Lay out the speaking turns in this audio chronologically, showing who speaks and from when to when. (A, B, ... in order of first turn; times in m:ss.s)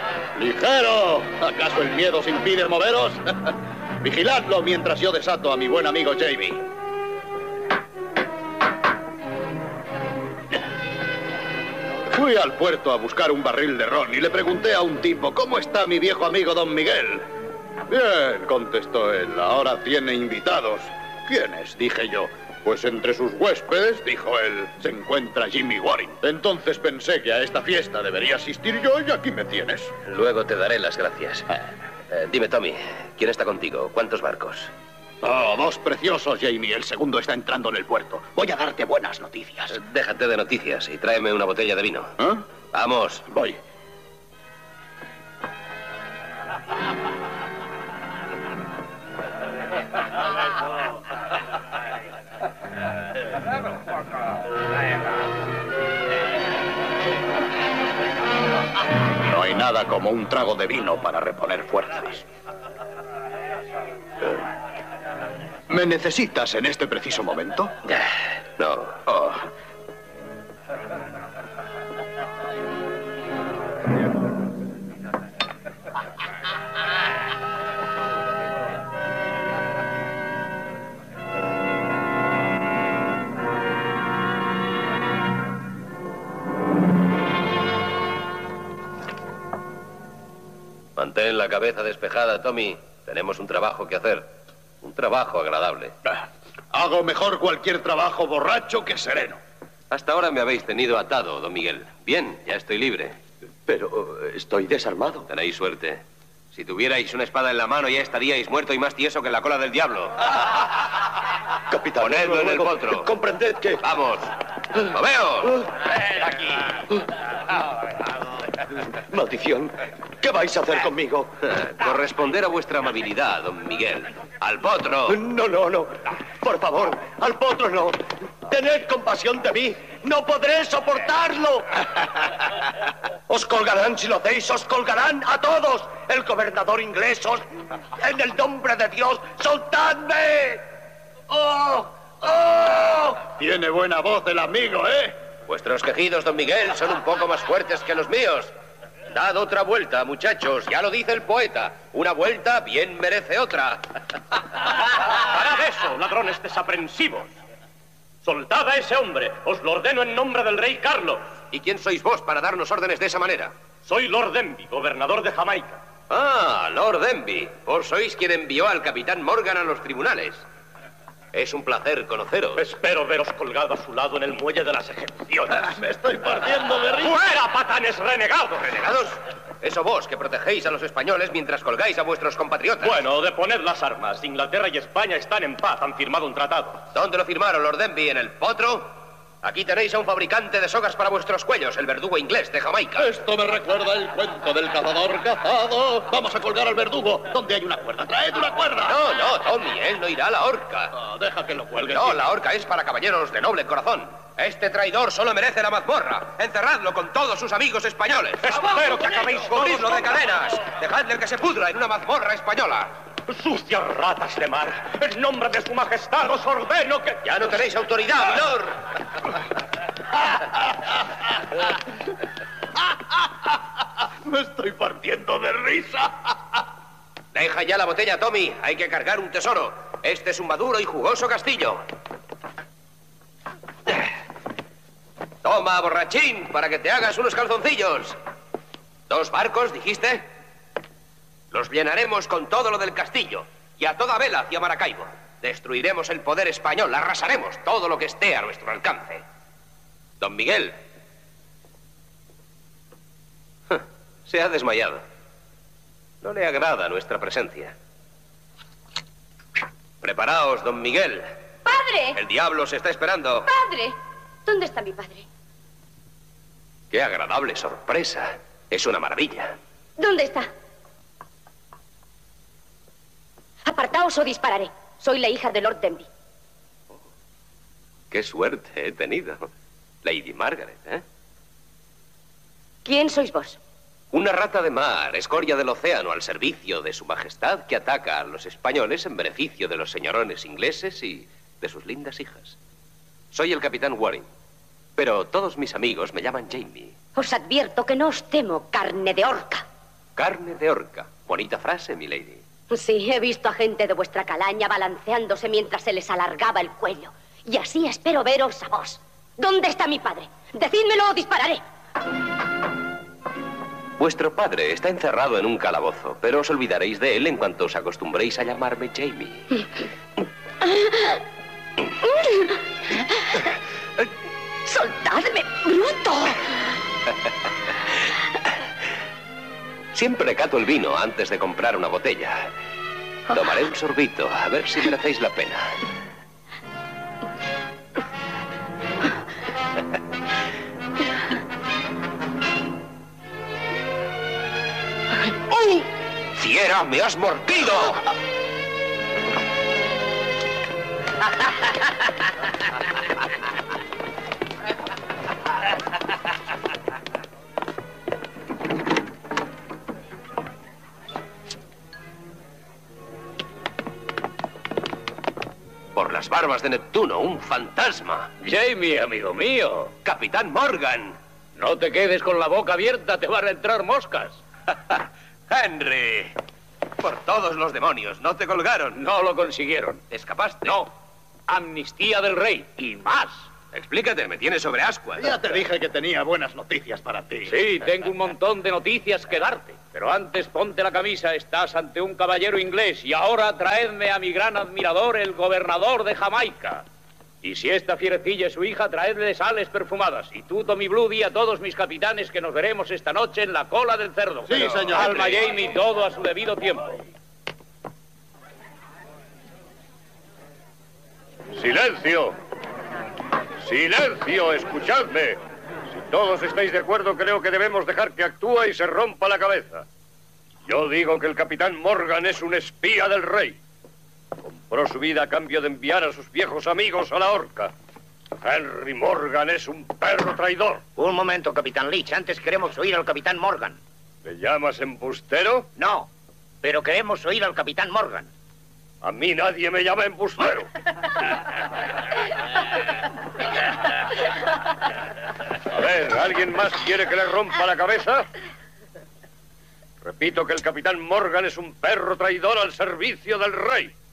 0:00.4-0:06.6 A
0:12.1-0:17.2 A
0:17.9-0:29.9 A
0:30.0-0:31.5 B
0:32.1-0:34.7 B
0:35.2-0:39.7 A
0:39.7-0:42.1 B
0:42.7-0:43.3 B
0:43.3-0:43.5 A
0:59.2-1:02.2 A
1:05.7-1:07.7 A
1:07.9-1:09.5 B
1:31.0-1:35.9 B
1:36.7-1:39.4 A
1:39.9-1:43.2 B
1:43.6-1:45.2 C
1:45.3-1:50.3 B
1:51.7-1:53.8 C
1:52.0-1:53.1 B
1:53.8-1:54.3 B
1:54.9-1:55.6 B
1:59.1-1:59.7 C
2:00.2-2:01.3 C
2:01.5-2:05.2 B
2:05.1-2:05.9 C
2:06.4-2:07.9 C
2:08.5-2:11.6 C
2:13.3-2:17.4 C
2:18.0-2:20.6 C
2:21.3-2:21.8 A
2:23.2-2:25.2 A
2:25.5-2:28.5 B
2:29.1-2:34.0 B
2:35.2-2:37.3 D
2:38.2-2:41.2 D
2:41.5-2:43.5 B
2:43.8-2:45.8 D
2:46.1-2:50.4 B
2:51.3-2:52.6 B
2:52.6-2:59.1 D
2:55.8-2:57.1 A
2:59.6-3:03.0 B
3:02.8-3:06.8 D
3:06.9-3:13.1 B
3:13.0-3:19.0 A
3:18.8-3:21.0 B
3:21.0-3:22.2 A
3:21.8-3:32.9 B
3:28.4-3:30.1 D
3:33.3-3:37.3 D
3:37.2-3:38.8 B
3:44.2-3:46.3 A
3:47.3-3:51.8 B
3:55.4-3:58.2 B
3:59.1-4:00.3 B
4:01.5-4:09.2 B
4:10.2-4:10.8 B
4:13.7-4:15.0 B
4:16.2-4:17.7 B
4:20.0-4:21.3 B
4:21.6-4:22.2 E
4:22.1-4:23.5 B
4:23.5-4:25.2 E
4:26.9-4:29.6 B
4:30.0-4:30.5 E
4:33.6-4:36.1 E
4:38.1-4:39.5 B
4:40.0-4:41.0 B
4:42.8-4:43.6 E
4:44.1-4:52.6 B
4:53.3-4:54.3 B
4:55.0-4:56.9 B
4:57.2-4:59.6 E
5:00.2-5:02.4 B
5:02.7-5:11.6 E
5:14.0-5:19.6 B
5:20.7-5:21.2 E
5:22.0-5:23.4 E
5:24.6-5:26.5 E
5:29.9-5:32.5 B
5:33.3-5:35.8 B
5:46.4-5:48.0 B
6:05.9-6:08.3 B
6:08.4-6:09.9 F
6:10.0-6:11.2 B
6:11.6-6:14.4 F
6:15.5-6:16.4 B
6:17.0-6:19.0 B
6:18.9-6:20.0 F
6:20.1-6:20.8 B
6:20.6-6:20.9 F
6:21.5-6:23.5 F
6:23.7-6:25.5 B
6:25.2-6:27.5 A
6:27.5-6:36.8 F
6:37.4-6:47.0 F
6:44.4-6:45.4 A
6:51.5-6:52.4 G
6:53.6-6:59.8 G
7:00.6-7:03.6 G
7:04.4-7:07.7 G
7:08.4-7:10.8 G
7:11.0-7:13.8 H
7:14.2-7:15.7 G
7:15.8-7:16.1 H
7:16.6-7:18.3 H
7:19.0-7:20.7 G
7:25.7-7:28.2 G
7:30.0-7:33.9 G